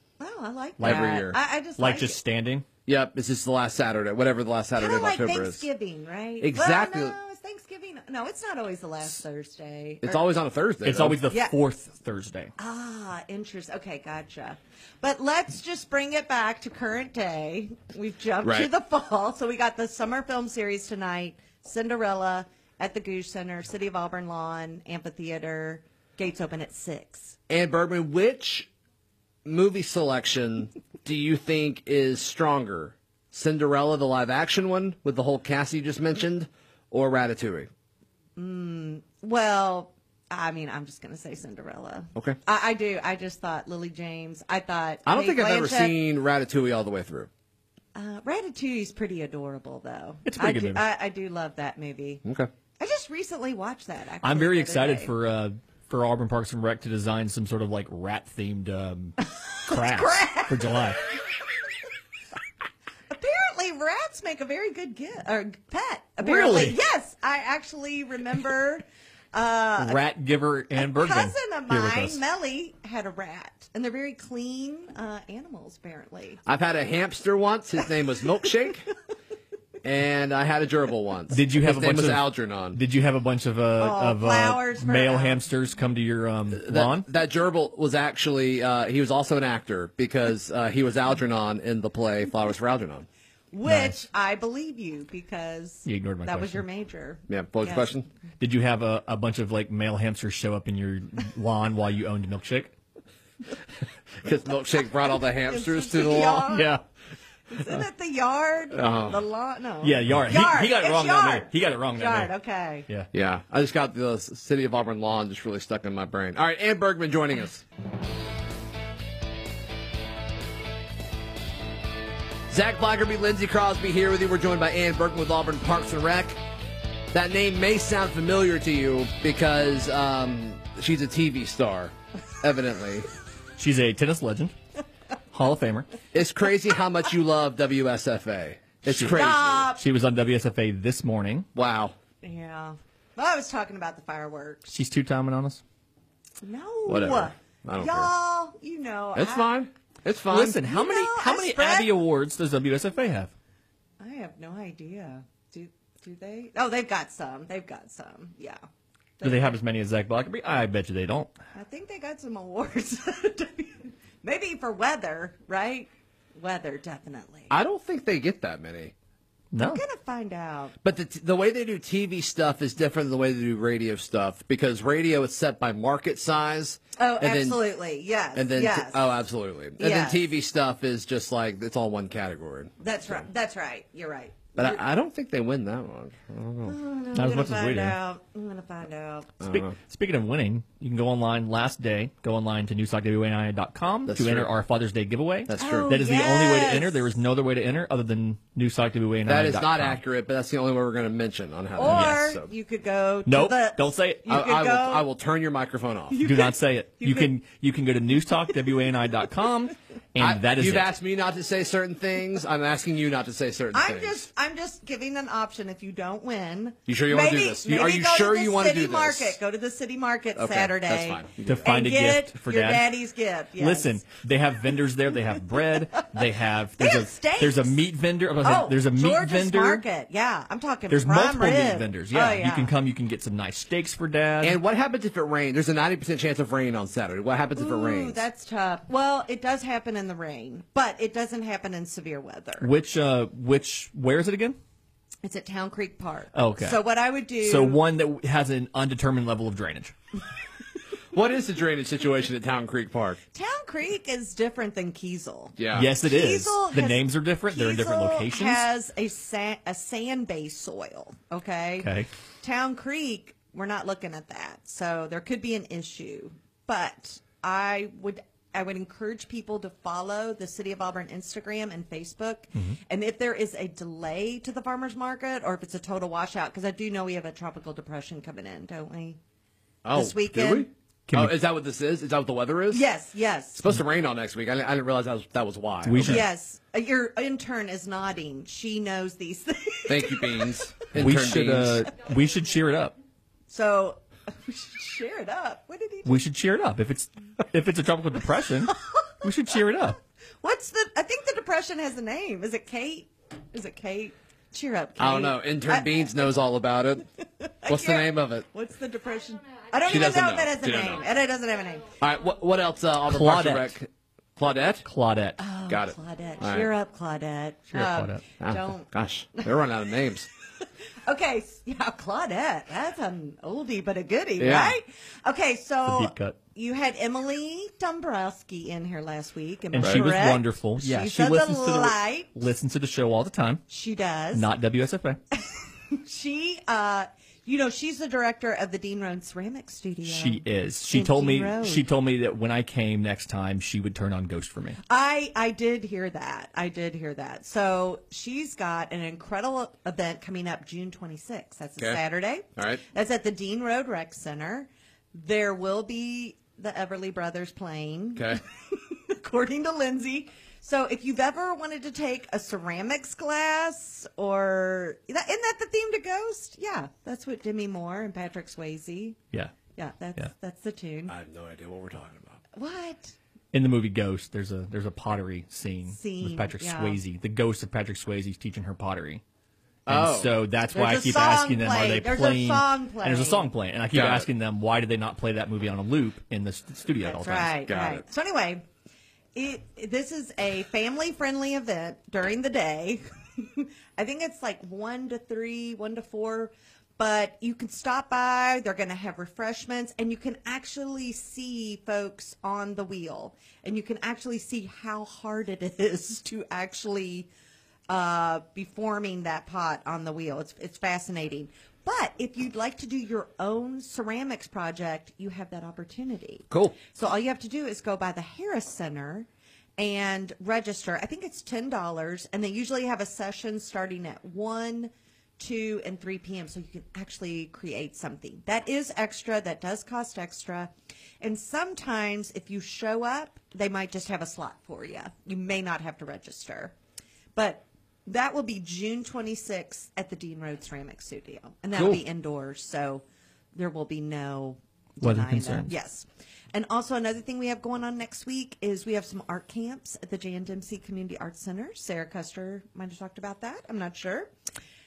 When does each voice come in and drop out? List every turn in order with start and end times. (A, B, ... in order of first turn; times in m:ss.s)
0:00.2-0:02.2 A
0:00.8-0:01.4 B
0:00.8-0:02.6 C
0:02.8-0:05.7 B
0:04.8-0:10.2 A
0:06.4-0:07.1 B
0:10.0-0:11.2 B
0:10.8-0:12.5 C
0:11.3-0:11.6 A
0:12.6-0:27.4 A
0:18.4-0:18.7 B
0:27.5-0:28.7 B
0:29.4-0:37.7 B
0:38.4-0:45.9 A
0:45.0-0:47.3 B
0:47.9-0:52.2 A
0:50.2-0:50.8 C
0:52.2-0:52.5 B
0:52.8-0:55.1 A
0:54.2-1:01.0 C
0:59.6-1:00.8 A
1:03.1-1:10.0 A
1:06.2-1:06.8 C
1:09.8-1:12.2 C
1:10.8-1:16.4 A
1:16.4-1:18.9 B
1:19.8-1:22.8 B
1:21.3-1:27.1 C
1:23.8-1:25.4 A
1:26.5-1:33.1 B
1:33.5-1:38.0 A
1:33.6-1:34.0 C
1:35.8-1:36.6 C
1:37.3-1:38.1 B
1:38.4-1:42.7 C
1:44.2-1:46.5 B
1:45.4-1:46.8 A
1:46.5-1:46.8 C
1:47.5-1:52.9 A
1:48.7-1:49.2 B
1:49.8-1:52.3 C
1:53.1-1:57.6 B
2:02.5-2:06.4 B
2:07.1-2:13.1 B
2:13.6-2:14.5 C
2:15.3-2:15.9 C
2:16.1-2:19.7 B
2:18.8-2:19.2 C
2:19.1-2:19.8 A
2:19.8-2:21.5 C
2:21.5-2:21.9 B
2:22.2-2:24.7 A
2:24.7-2:25.6 C
2:26.4-2:29.5 A
2:26.9-2:28.1 B
2:29.1-2:30.6 B
2:30.2-2:33.3 C
2:30.6-2:32.0 A
2:34.0-2:38.6 A
2:39.2-2:39.6 A
2:39.2-2:41.3 C
2:41.5-2:47.5 A
2:47.5-2:48.9 B
2:49.5-2:49.8 C
2:49.6-2:50.7 A
2:50.8-2:57.6 B
2:57.0-2:59.1 A
2:58.3-3:03.2 B
2:59.8-3:00.3 A
3:02.8-3:04.8 A
3:04.6-3:06.8 B
3:06.6-3:09.4 A
3:07.1-3:08.0 C
3:09.4-3:09.7 B
3:09.4-3:20.0 C
3:14.0-3:14.5 B
3:15.4-3:15.9 B
3:15.6-3:17.0 A
3:19.3-3:22.5 B
3:21.8-3:25.1 A
3:21.8-3:22.3 C
3:23.2-3:24.3 C
3:24.3-3:26.2 B
3:26.1-3:27.3 A
3:26.2-3:30.9 C
3:30.2-3:34.2 B
3:33.7-3:44.0 A
3:36.9-3:39.4 B
3:40.4-3:41.6 B
3:41.4-3:42.9 C
3:43.6-3:49.8 C
3:46.8-3:47.8 A
3:48.4-3:52.7 A
3:50.9-3:54.6 C
3:54.4-3:58.2 B
3:57.5-4:02.7 A
4:02.6-4:04.6 C
4:05.2-4:07.8 A
4:06.3-4:06.8 C
4:07.4-4:09.9 C
4:11.1-4:13.2 B
4:13.3-4:39.2 A
4:15.6-4:15.9 B
4:15.7-4:18.6 C
4:21.8-4:22.1 C
4:39.8-4:42.9 B
4:39.9-4:40.7 A
4:41.1-4:41.4 C
4:42.7-4:43.6 A
4:43.5-4:46.2 B
4:45.8-4:46.2 C
4:46.0-4:50.6 A
4:49.9-4:51.9 B
4:50.9-4:52.9 C
4:53.5-4:56.2 A
4:56.0-5:00.0 C
4:58.7-4:59.1 A
5:00.4-5:06.1 A
5:05.0-5:07.0 B
5:07.4-5:11.9 A
5:07.7-5:08.5 B
5:09.8-5:11.0 B
5:12.0-5:14.8 B
5:13.1-5:13.7 C
5:14.8-5:15.4 C
5:15.4-5:19.5 A
5:15.7-5:16.7 B
5:17.7-5:18.2 C
5:18.4-5:20.3 B
5:21.0-5:32.3 A
5:24.4-5:24.8 B
5:25.8-5:26.4 C
5:29.7-5:33.6 C
5:29.8-5:30.0 B
5:33.7-5:34.5 A
5:34.3-5:35.2 C
5:35.3-5:41.8 A
5:40.0-5:44.8 C
5:44.9-6:09.2 A
5:52.6-5:52.8 B
6:09.8-6:11.1 A
6:11.1-6:12.4 B
6:12.5-6:13.1 A
6:13.5-6:19.2 C
6:15.9-6:17.0 A
6:19.9-6:20.3 B
6:19.9-6:27.6 C
6:20.7-6:23.5 A
6:23.9-6:24.3 B
6:27.0-6:28.6 A
6:27.7-6:28.0 B
6:29.3-6:47.3 A
6:47.9-7:16.7 A
6:56.5-6:56.8 B
7:17.4-7:34.3 A
7:25.0-7:25.7 C